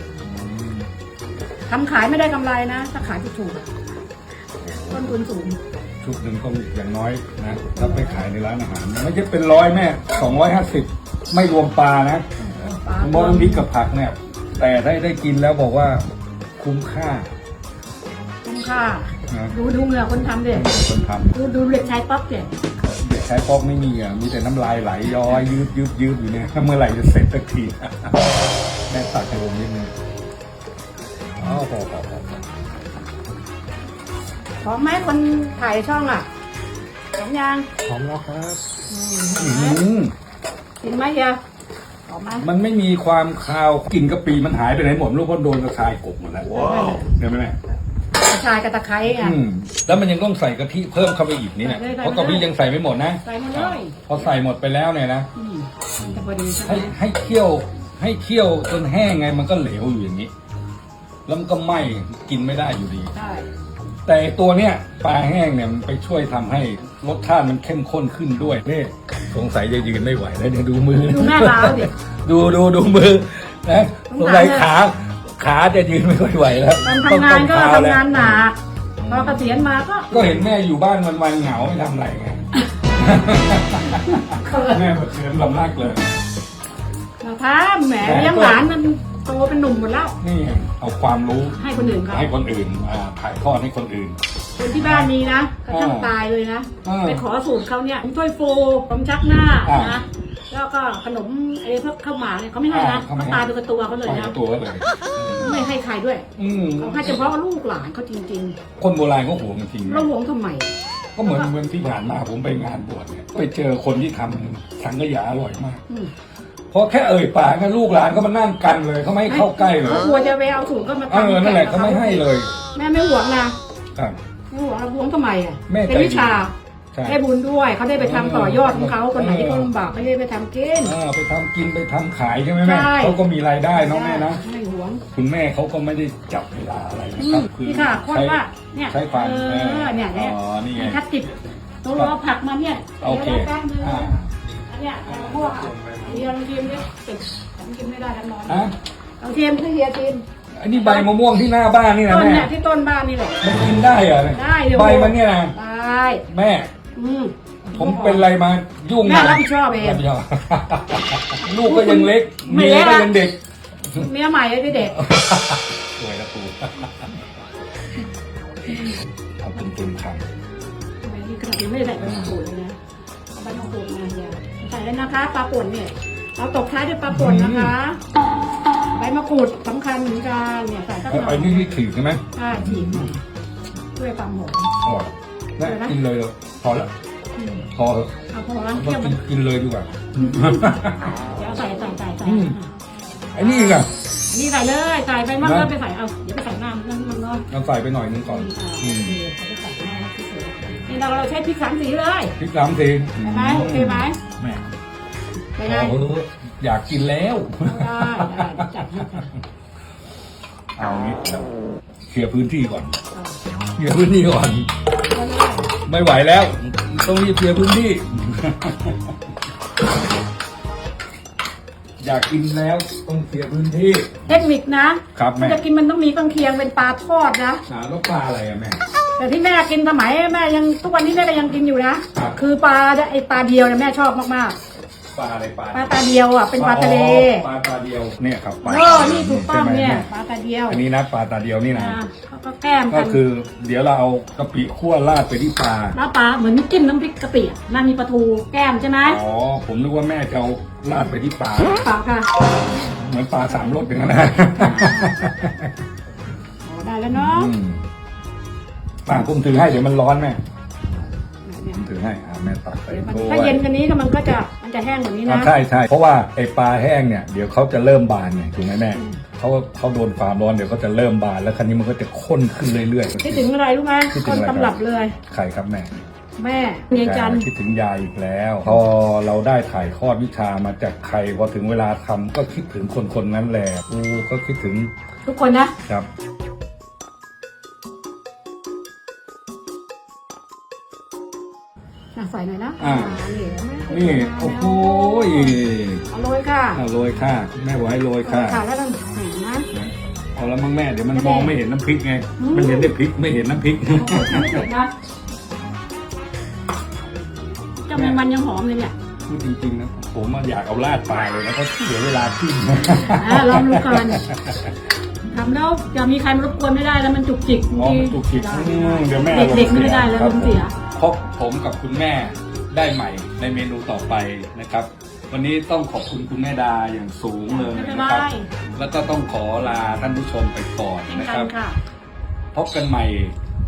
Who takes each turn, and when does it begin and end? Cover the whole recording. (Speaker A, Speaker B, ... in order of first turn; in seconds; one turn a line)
Speaker A: 0.2-0.9
Speaker B: 1.7-3.7
Speaker A: 4.6-5.2
Speaker B: 4.9-5.6
Speaker A: 6.0-12.2
Speaker B: 7.7-8.2
Speaker B: 12.4-13.7
Speaker A: 13.0-16.0
Speaker A: 16.6-17.3
Speaker B: 18.4-20.7
Speaker A: 19.3-19.5
Speaker A: 20.5-21.4
Speaker B: 21.3-22.6
Speaker A: 22.8-28.3
Speaker A: 28.9-29.9
Speaker A: 31.4-32.5
Speaker B: 34.6-36.3
Speaker B: 37.1-37.7
Speaker A: 37.9-38.6
Speaker B: 38.9-39.8
Speaker A: 39.4-40.1
Speaker B: 40.8-41.4
Speaker B: 42.1-42.5
Speaker A: 42.4-47.6
Speaker B: 46.4-47.1
Speaker B: 48.2-49.4
Speaker A: 49.2-55.3
Speaker B: 51.6-52.5
Speaker B: 53.2-54.2
Speaker B: 55.3-57.0
Speaker A: 56.6-60.3
Speaker A: 61.2-63.1
Speaker B: 63.1-63.5
Speaker A: 64.0-78.4
Speaker B: 71.0-71.9
Speaker B: 74.1-74.7
Speaker B: 76.8-78.6
Speaker A: 79.0-86.1
Speaker B: 79.1-80.3
Speaker B: 84.0-84.8
Speaker B: 87.2-90.2
Speaker A: 88.0-88.6
Speaker A: 90.2-94.2
Speaker B: 91.5-92.3
Speaker B: 94.6-104.3
Speaker A: 94.7-95.1
Speaker A: 95.7-96.1
Speaker A: 96.8-97.2
Speaker A: 99.7-100.0
Speaker A: 102.7-103.5
Speaker A: 104.0-105.6
Speaker B: 105.4-108.6
Speaker A: 106.4-107.2
Speaker A: 108.8-110.1
Speaker B: 109.8-111.5
Speaker A: 111.2-115.8
Speaker A: 116.7-120.1
Speaker B: 119.3-123.5
Speaker A: 121.1-122.6
Speaker B: 124.5-126.5
Speaker A: 125.7-127.2
Speaker B: 127.0-130.9
Speaker A: 128.0-129.7
Speaker A: 130.8-134.4
Speaker B: 132.6-133.2
Speaker B: 133.7-135.0
Speaker A: 135.1-142.1
Speaker B: 137.2-141.3
Speaker B: 141.8-144.1
Speaker A: 143.0-144.4
Speaker B: 144.7-150.2
Speaker A: 145.0-146.3
Speaker A: 148.5-148.7
Speaker A: 150.6-152.5
Speaker B: 150.7-151.1
Speaker B: 152.1-153.4
Speaker A: 153.4-155.5
Speaker B: 154.3-156.2
Speaker A: 156.3-156.8
Speaker B: 156.9-158.3
Speaker A: 157.7-163.4
Speaker B: 159.0-160.0
Speaker B: 161.6-163.1
Speaker B: 163.9-165.0
Speaker A: 164.7-167.1
Speaker B: 168.6-168.9
Speaker A: 168.7-170.2
Speaker B: 171.0-172.8
Speaker A: 172.0-172.3
Speaker B: 173.3-178.0
Speaker A: 177.1-177.7
Speaker B: 178.9-181.8
Speaker A: 181.1-183.1
Speaker B: 182.3-183.2
Speaker B: 183.9-184.7
Speaker A: 184.8-186.9
Speaker B: 185.6-185.9
Speaker B: 187.4-187.7
Speaker A: 187.7-188.1
Speaker B: 188.3-189.2
Speaker A: 188.7-191.2
Speaker B: 190.0-192.7
Speaker A: 192.2-192.6
Speaker A: 193.3-193.9
Speaker B: 193.4-197.5
Speaker A: 195.4-195.7
Speaker A: 197.5-199.2
Speaker B: 198.2-202.3
Speaker A: 202.4-204.7
Speaker B: 203.2-204.2
Speaker B: 205.6-205.9
Speaker A: 205.6-209.3
Speaker B: 207.6-209.3
Speaker A: 210.8-211.4
Speaker A: 212.1-212.9
Speaker B: 213.1-213.4
Speaker A: 213.8-214.7
Speaker B: 215.1-215.7
Speaker A: 215.8-219.1
Speaker A: 222.0-224.3
Speaker B: 224.3-227.6
Speaker A: 225.1-225.6
Speaker A: 227.7-228.8
Speaker B: 229.2-234.6
Speaker A: 235.1-235.9
Speaker B: 235.7-237.5
Speaker A: 236.5-240.1
Speaker B: 238.6-240.8
Speaker A: 240.7-242.0
Speaker B: 241.7-243.2
Speaker A: 242.9-246.0
Speaker B: 245.9-249.2
Speaker A: 249.0-251.8
Speaker B: 251.7-252.4
Speaker A: 252.8-255.7
Speaker B: 253.6-253.9
Speaker B: 254.5-255.1
Speaker B: 256.6-257.5
Speaker A: 257.1-257.8
Speaker A: 259.1-260.4
Speaker B: 261.4-261.8
Speaker A: 261.7-263.6
Speaker B: 262.9-265.6
Speaker A: 265.2-273.5
Speaker B: 268.9-269.2
Speaker B: 273.2-275.2
Speaker A: 274.1-275.9
Speaker B: 276.4-277.4
Speaker A: 276.9-284.9
Speaker B: 285.2-285.8
Speaker B: 292.1-296.8
Speaker A: 292.8-293.2
Speaker A: 293.9-296.0
Speaker A: 296.7-298.6
Speaker B: 298.2-299.7
Speaker A: 299.7-304.6
Speaker B: 301.1-301.5
Speaker B: 302.4-302.9
Speaker B: 303.9-304.9
Speaker B: 307.9-308.9
Speaker A: 307.9-308.2
Speaker A: 309.2-314.7
Speaker B: 312.9-314.3
Speaker B: 315.3-320.7
Speaker A: 317.8-331.5
Speaker B: 327.5-328.5
Speaker B: 331.1-331.8
Speaker A: 332.5-333.3